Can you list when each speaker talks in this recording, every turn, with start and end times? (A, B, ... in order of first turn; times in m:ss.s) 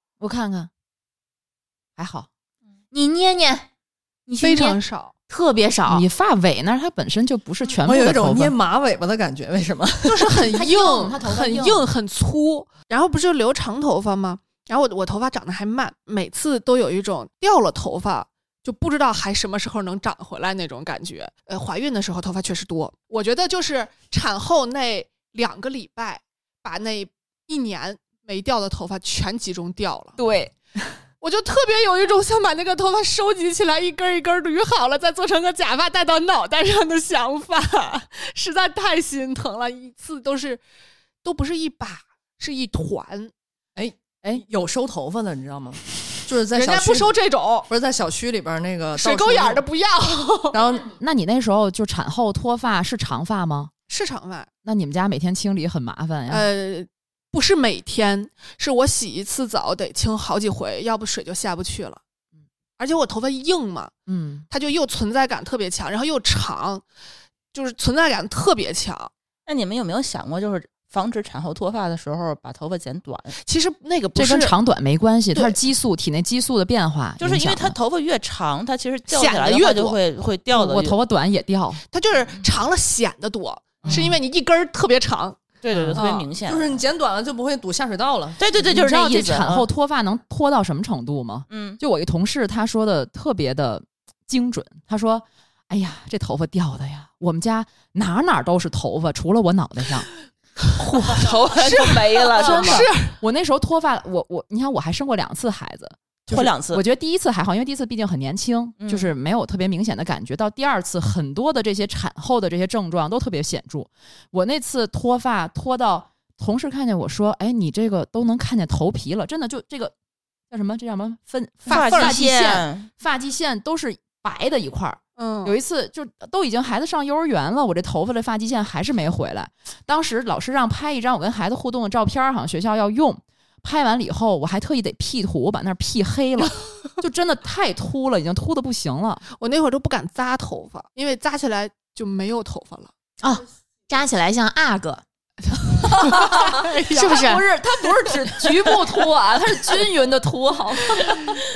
0:00.2-0:00.7 A
0:02.0-0:02.3 A
0:02.9-0:03.7 B
0:04.3-0:06.0 B
0:04.4-0:05.1 C
0:05.9-0:08.5 A
0:07.8-0:10.4 D
0:10.1-0:30.2 C
0:10.5-0:11.8 B
0:10.6-0:11.7 A
0:30.2-0:31.0 A
0:31.2-0:40.6 C
0:41.2-0:43.3 C
0:43.8-0:47.1 D
0:46.5-0:47.7 C
0:47.7-0:49.6 D
0:49.0-0:50.6 C
0:50.5-0:50.9 D
0:50.9-0:53.7 A
0:53.9-0:54.5 C
0:54.6-0:56.5 A
0:56.3-1:02.0 C
1:02.8-1:03.9 C
1:04.1-1:04.5 A
1:04.5-1:06.8 C
1:07.5-1:09.1 C
1:09.5-1:13.4 E
1:13.4-1:14.5 C
1:14.2-1:17.8 A
1:17.2-1:21.0 E
1:19.1-1:20.0 C
1:20.5-1:21.8 A
1:21.9-1:25.4 C
1:23.8-1:24.1 E
1:23.9-1:24.2 A
1:25.6-1:26.8 E
1:25.7-1:26.0 A
1:26.0-1:26.3 C
1:26.4-1:28.4 D
1:28.4-1:29.7 E
1:28.6-1:40.1 A
1:31.5-1:31.8 E
1:40.9-1:42.9 E
1:40.9-1:43.1 C
1:42.4-1:59.9 A
1:46.3-1:46.8 E
1:48.8-1:49.1 E
2:00.5-2:19.2 A
2:01.7-2:02.2 C
2:01.7-2:02.9 E
2:05.2-2:05.6 C
2:19.4-2:22.9 C
2:23.2-2:25.0 B
2:25.8-2:27.3 C
2:26.9-2:27.4 B
2:26.9-2:31.3 A